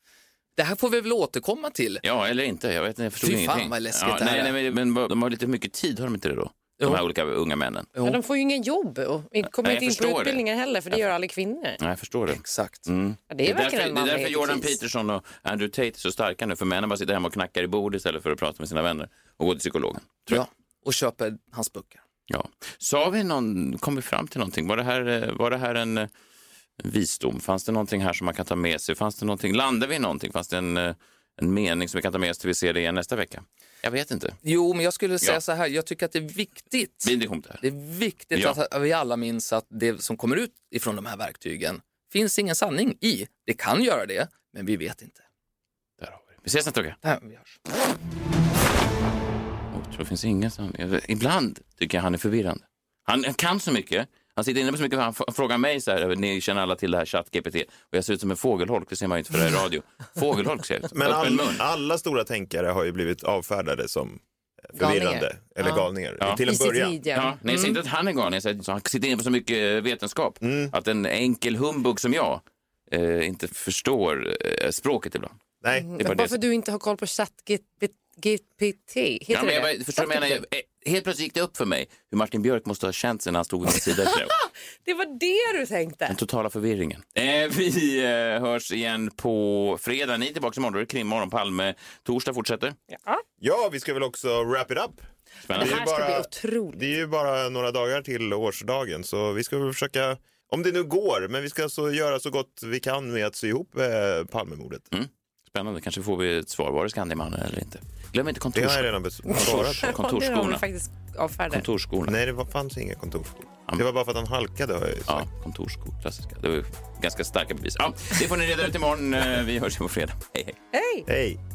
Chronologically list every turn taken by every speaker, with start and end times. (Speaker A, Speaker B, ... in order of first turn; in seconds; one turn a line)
Speaker A: 0.6-2.0
Speaker B: 2.0-7.9
Speaker A: 3.2-4.6
Speaker C: 8.0-11.8
Speaker B: 9.4-11.0
Speaker B: 11.8-20.4
Speaker A: 12.3-12.9
Speaker C: 13.3-14.7
Speaker A: 20.3-22.0
Speaker B: 22.3-26.1
Speaker B: 26.8-34.4
Speaker A: 34.4-45.2
Speaker B: 37.0-37.6
Speaker B: 46.0-47.0
Speaker A: 47.0-47.6
Speaker B: 49.7-61.6
Speaker D: 60.9-67.0
Speaker C: 64.8-65.8
Speaker C: 66.4-67.8
Speaker B: 67.1-75.4
Speaker D: 70.4-70.7
Speaker D: 75.6-75.9
Speaker C: 75.7-80.4
Speaker B: 76.0-76.4
Speaker B: 79.3-84.3
Speaker C: 84.1-86.2
Speaker B: 86.1-92.8
Speaker C: 92.9-93.2
Speaker D: 93.4-104.9
Speaker B: 95.4-95.8
Speaker C: 95.5-96.9
Speaker B: 104.9-110.7
Speaker D: 108.5-110.0
Speaker C: 109.3-111.6
Speaker B: 111.5-112.2
Speaker D: 112.1-115.3
Speaker B: 115.1-120.6
Speaker C: 120.7-121.1
Speaker D: 121.1-121.4